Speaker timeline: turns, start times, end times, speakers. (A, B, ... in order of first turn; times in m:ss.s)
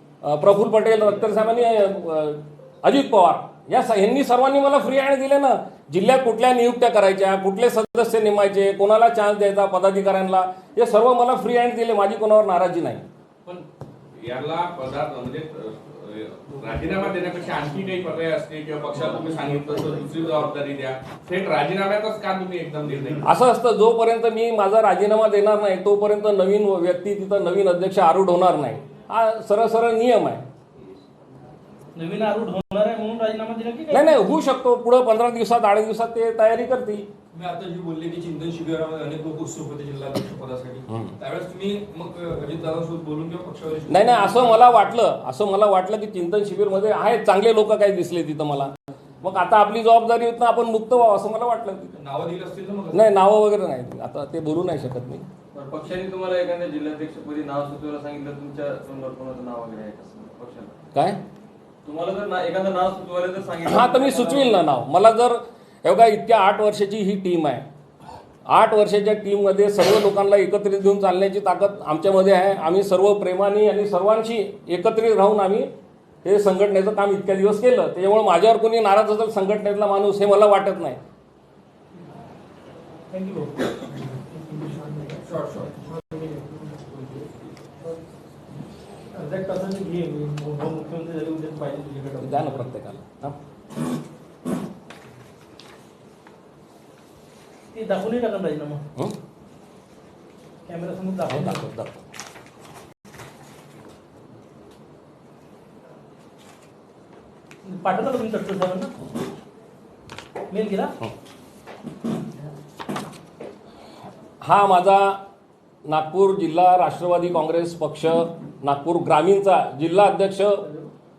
0:00.2-0:13.0 A
0:14.2-0:23.3 B
0:23.2-0:30.4 A
0:32.0-0:34.4 C
0:33.9-0:37.1 A
0:37.3-0:44.5 D
0:43.9-0:48.7 A
0:49.2-0:51.9 A
0:51.9-0:53.1 D
0:52.9-0:55.2 A
0:55.5-1:00.8 E
1:00.9-1:01.2 A
1:01.8-1:04.7 E
1:03.6-1:07.6 A
1:08.5-1:15.7 A
1:16.2-1:21.0 A
1:23.1-1:23.7 C
1:24.7-1:25.1 C
1:25.3-1:25.7 D
1:29.1-1:32.7 C
1:32.2-1:33.4 A
1:37.7-1:38.8 C
1:40.7-1:41.6 C
1:41.3-1:42.0 A
1:47.6-1:48.9 C
1:50.5-1:51.0 C
1:54.4-1:55.2 A
1:55.9-2:00.6 A
2:00.6-2:00.9 C